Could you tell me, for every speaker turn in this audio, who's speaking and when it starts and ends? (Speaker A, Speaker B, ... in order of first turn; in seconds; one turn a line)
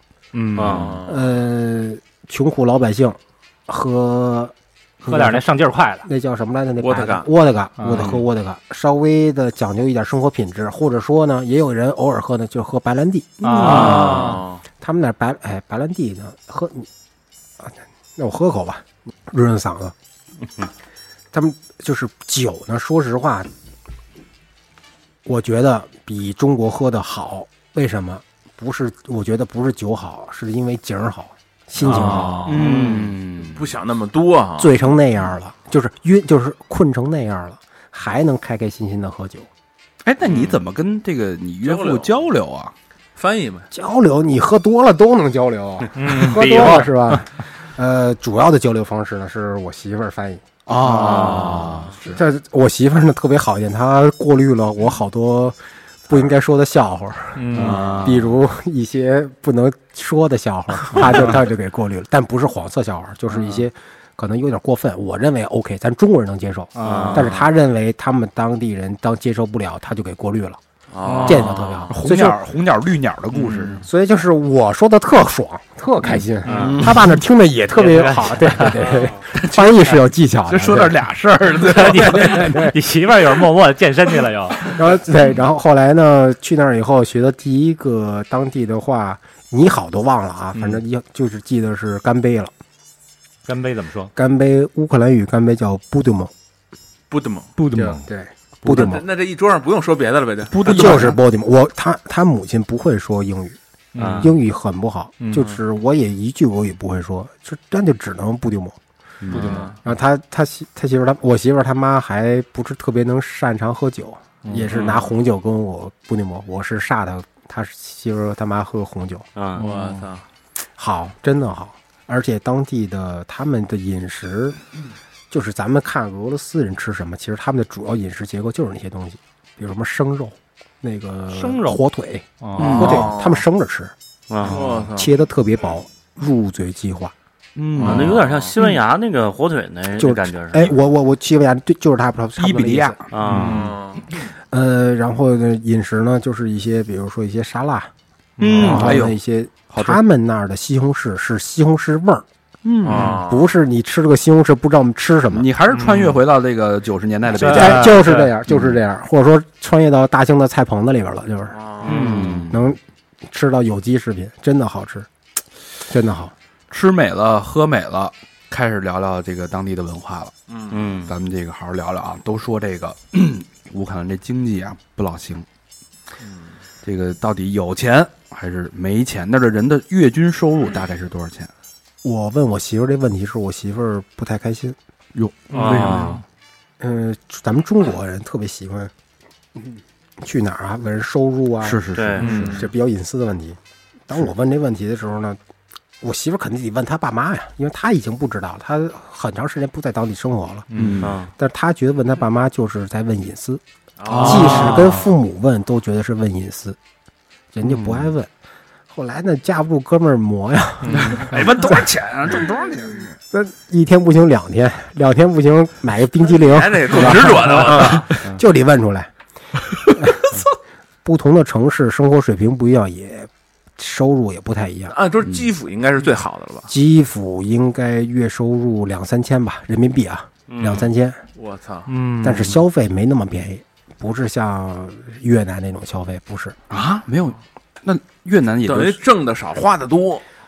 Speaker A: 0.3-0.9
Speaker B: 0.5-1.0
Speaker C: 0.7-1.2
Speaker D: 1.0-5.5
Speaker A: 5.0-6.1
Speaker D: 6.0-14.1
Speaker C: 6.8-7.3
Speaker A: 7.8-8.2
Speaker A: 13.4-14.4
Speaker E: 13.5-14.2
Speaker C: 13.6-14.6
Speaker B: 13.6-13.9
Speaker D: 14.8-16.9
Speaker D: 17.6-19.9
Speaker D: 21.3-23.5
Speaker D: 25.2-32.5
Speaker C: 31.8-32.9
Speaker A: 31.9-32.4
Speaker E: 31.9-33.6
Speaker B: 32.6-33.1
Speaker C: 33.5-34.9
Speaker D: 34.6-39.5
Speaker E: 40.0-42.7
Speaker C: 41.6-42.1
Speaker C: 43.1-43.7
Speaker D: 43.7-70.6
Speaker A: 45.9-47.1
Speaker E: 50.7-52.2
Speaker C: 50.9-51.7
Speaker A: 57.3-58.0
Speaker E: 57.5-58.3
Speaker A: 60.9-61.3
Speaker A: 66.8-67.3
Speaker B: 66.8-67.4
Speaker C: 70.9-71.9
Speaker D: 71.2-72.4
Speaker B: 71.4-71.8
Speaker E: 71.9-73.8
Speaker D: 73.7-81.0
Speaker A: 76.5-76.8
Speaker E: 76.5-77.2
Speaker A: 77.8-78.9
Speaker E: 79.3-79.7
Speaker E: 80.5-82.7
Speaker A: 81.6-84.8
Speaker D: 82.2-82.7
Speaker D: 84.7-92.5
Speaker A: 93.5-94.1
Speaker D: 94.2-96.3
Speaker C: 97.1-97.5
Speaker E: 97.6-98.0
Speaker D: 97.7-99.1
Speaker C: 98.6-101.1
Speaker E: 100.5-101.2
Speaker D: 100.7-103.5
Speaker A: 104.0-104.3
Speaker B: 104.0-104.3
Speaker D: 104.2-108.8
Speaker E: 109.2-109.6
Speaker C: 109.3-109.7
Speaker A: 109.3-109.7
Speaker D: 109.8-119.2
Speaker B: 119.3-119.7
Speaker C: 119.6-120.2
Speaker D: 120.8-124.6
Speaker D: 125.3-133.9
Speaker A: 131.3-131.8
Speaker A: 132.4-133.1
Speaker E: 132.6-133.1
Speaker C: 132.8-133.4
Speaker B: 134.3-134.7
Speaker C: 134.5-135.1
Speaker D: 134.9-137.1
Speaker E: 137.6-138.8
Speaker C: 137.8-138.2
Speaker B: 137.8-140.7
Speaker D: 140.0-143.0
Speaker E: 142.3-143.7
Speaker B: 143.1-143.7
Speaker C: 143.4-144.0
Speaker D: 144.5-147.9
Speaker A: 148.4-149.0
Speaker E: 148.4-149.2
Speaker D: 148.5-152.2
Speaker E: 149.7-150.0
Speaker E: 152.6-153.2
Speaker C: 152.8-153.6
Speaker D: 153.2-155.5
Speaker E: 155.3-158.8
Speaker A: 155.7-156.2
Speaker D: 157.3-161.6
Speaker A: 157.4-158.3
Speaker C: 161.5-162.1
Speaker B: 161.8-162.6
Speaker E: 161.8-162.6
Speaker D: 162.5-165.1
Speaker D: 165.8-166.3
Speaker E: 166.7-170.3
Speaker C: 170.5-170.8
Speaker B: 170.7-171.1
Speaker E: 171.1-175.4
Speaker C: 176.2-176.6
Speaker E: 176.8-181.5
Speaker D: 182.0-184.8
Speaker E: 185.1-186.2
Speaker B: 185.5-186.2
Speaker D: 186.8-188.9
Speaker D: 189.6-195.4
Speaker E: 191.6-192.6
Speaker B: 191.9-192.3
Speaker A: 192.2-192.6
Speaker D: 196.0-200.7
Speaker A: 200.7-201.1
Speaker E: 200.7-201.1
Speaker B: 201.0-201.3
Speaker D: 201.4-203.6
Speaker C: 204.0-204.8
Speaker E: 204.1-205.0
Speaker D: 204.1-206.8
Speaker A: 204.3-204.9
Speaker D: 207.5-208.3
Speaker E: 207.6-208.1
Speaker D: 208.9-211.8
Speaker A: 210.9-211.2
Speaker E: 210.9-213.1
Speaker D: 213.3-219.1
Speaker C: 216.3-218.1
Speaker E: 216.9-218.2
Speaker D: 219.9-220.4
Speaker D: 221.0-224.9
Speaker C: 224.9-226.7
Speaker E: 225.2-225.5
Speaker D: 226.7-231.2
Speaker B: 230.5-230.8
Speaker C: 231.3-231.9
Speaker A: 231.9-232.5
Speaker D: 232.2-236.6
Speaker E: 236.7-239.0
Speaker C: 238.7-240.2